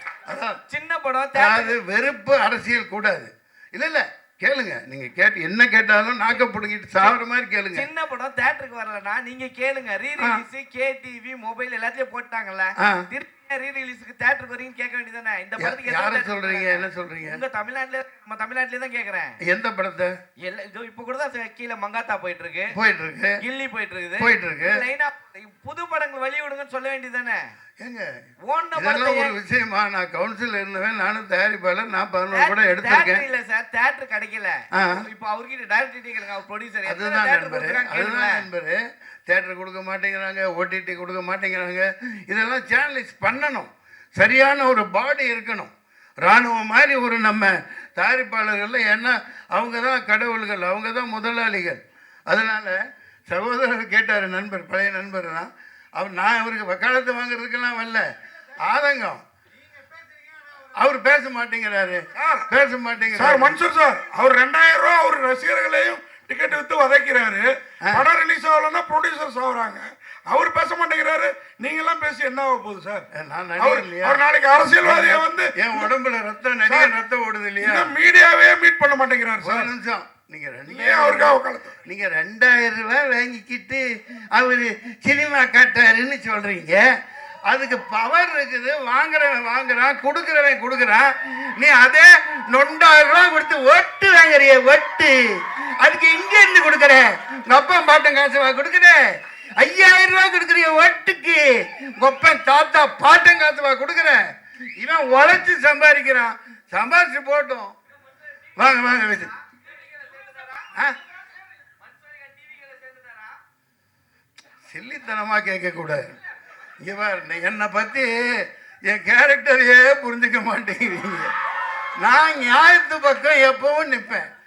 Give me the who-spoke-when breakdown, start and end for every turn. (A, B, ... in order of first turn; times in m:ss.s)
0:00.3-0:00.6 A
0:00.7-0:01.7 B
0:01.3-0:07.9 A
0:07.7-0:19.4 B
0:10.2-0:10.4 A
0:15.6-0:17.4 A
0:19.4-0:20.1 A
0:20.4-0:22.7 B
0:22.7-0:23.4 A
0:23.4-0:27.4 B
0:24.2-0:24.8 A
0:27.8-0:28.0 A
0:28.5-0:29.4 B
0:28.7-0:33.3 A
0:32.3-0:38.4 B
0:34.7-0:35.0 A
0:36.8-0:45.7 A
0:46.2-0:52.8 A
0:53.3-0:58.0 A
0:58.6-0:59.2 A
1:00.7-1:03.6 A
1:02.1-1:02.5 C
1:03.1-1:13.1 C
1:13.1-1:14.2 A
1:13.6-1:15.9 C
1:14.8-1:17.9 A
1:16.6-1:16.9 C
1:17.6-1:19.7 C
1:19.4-1:23.8 A
1:20.7-1:21.8 C
1:24.3-1:26.8 A
1:27.5-1:35.2 A
1:35.8-1:47.7 A
1:48.6-1:49.3 A
1:49.5-1:53.3 B
1:54.7-1:56.2 A
1:56.8-2:01.3 A
2:02.0-2:04.3 A